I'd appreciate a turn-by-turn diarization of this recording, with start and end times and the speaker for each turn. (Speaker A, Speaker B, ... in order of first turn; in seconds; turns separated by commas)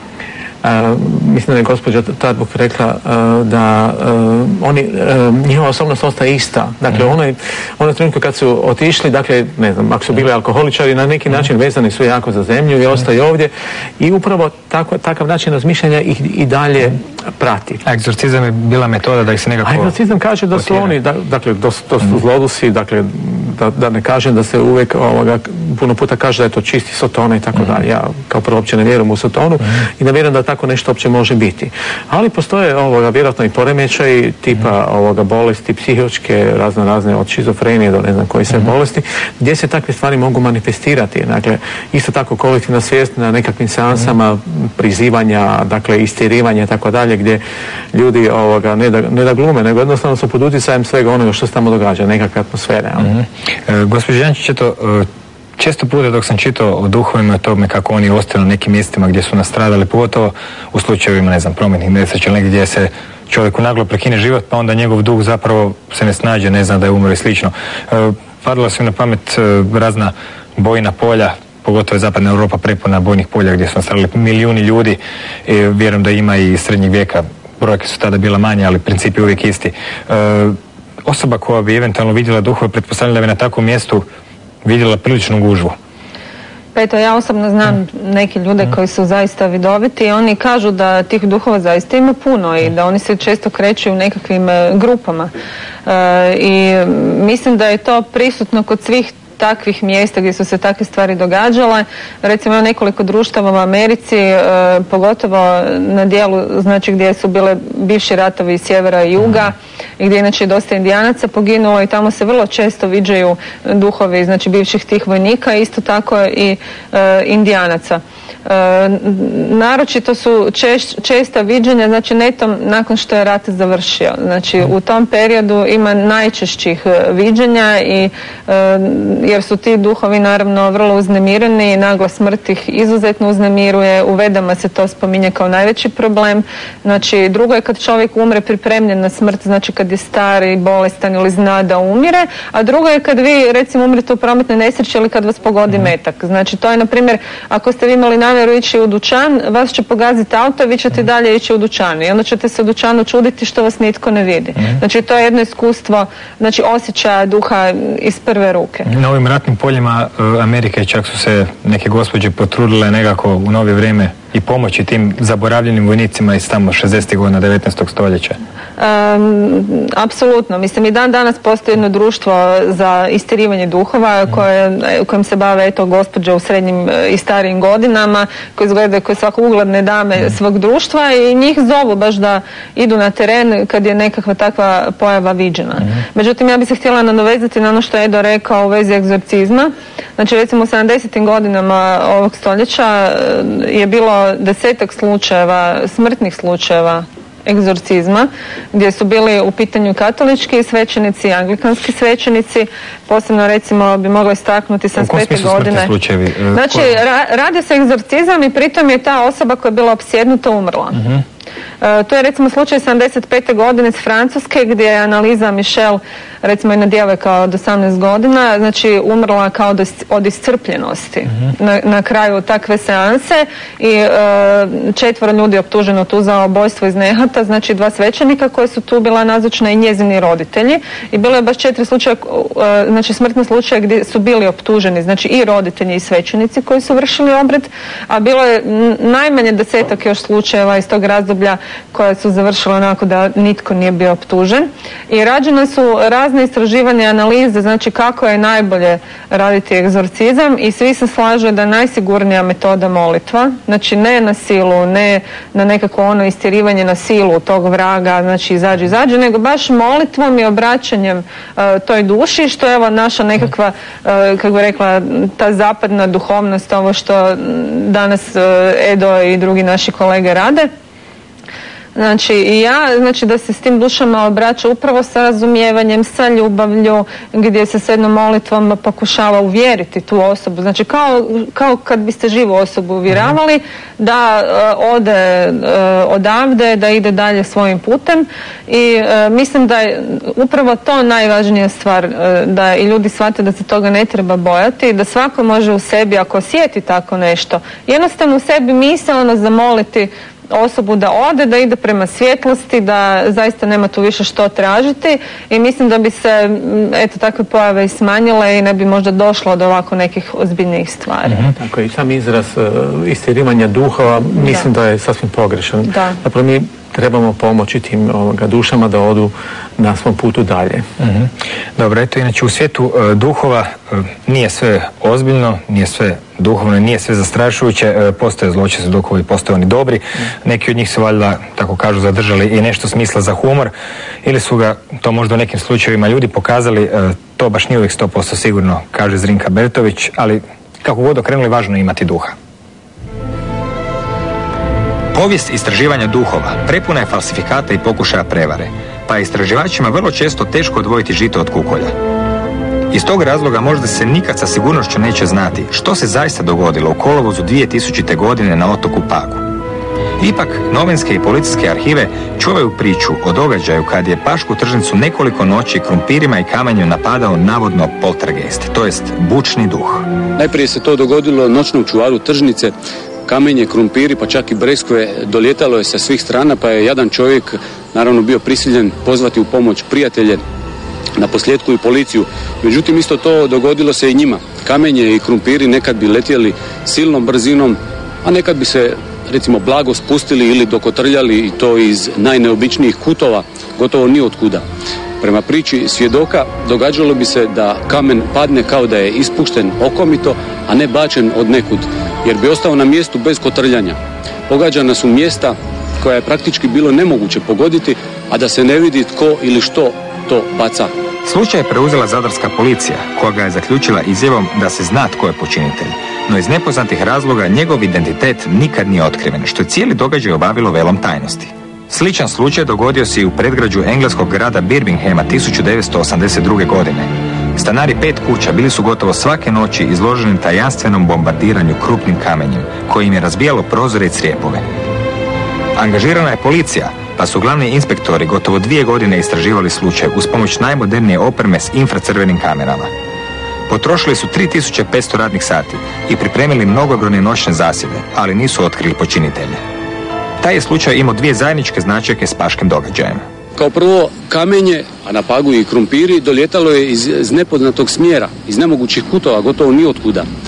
Speaker A: 0.6-17.8, Speaker B: 17.9-19.9, Speaker A: 19.6-47.4, Speaker B: 20.6-20.9, Speaker A: 47.9-53.1, Speaker B: 53.0-84.1, Speaker B: 84.6-85.8, Speaker C: 86.8-95.3, Speaker C: 95.9-158.9, Speaker B: 158.9-168.4, Speaker C: 168.8-205.9, Speaker B: 205.0-206.9, Speaker C: 206.5-211.0, Speaker C: 211.8-270.7, Speaker C: 271.9-311.4, Speaker A: 311.6-320.9, Speaker C: 315.9-316.2, Speaker B: 321.0-333.7, Speaker B: 334.2-342.4, Speaker B: 345.1-351.9, Speaker B: 352.9-359.4, Speaker B: 360.2-370.1, Speaker D: 370.4-372.7, Speaker D: 373.3-380.4, Speaker D: 381.2-394.6, Speaker D: 395.2-410.9, Speaker B: 411.2-434.6, Speaker B: 435.8-442.9, Speaker B: 443.7-449.6, Speaker B: 450.4-453.2, Speaker D: 453.6-460.3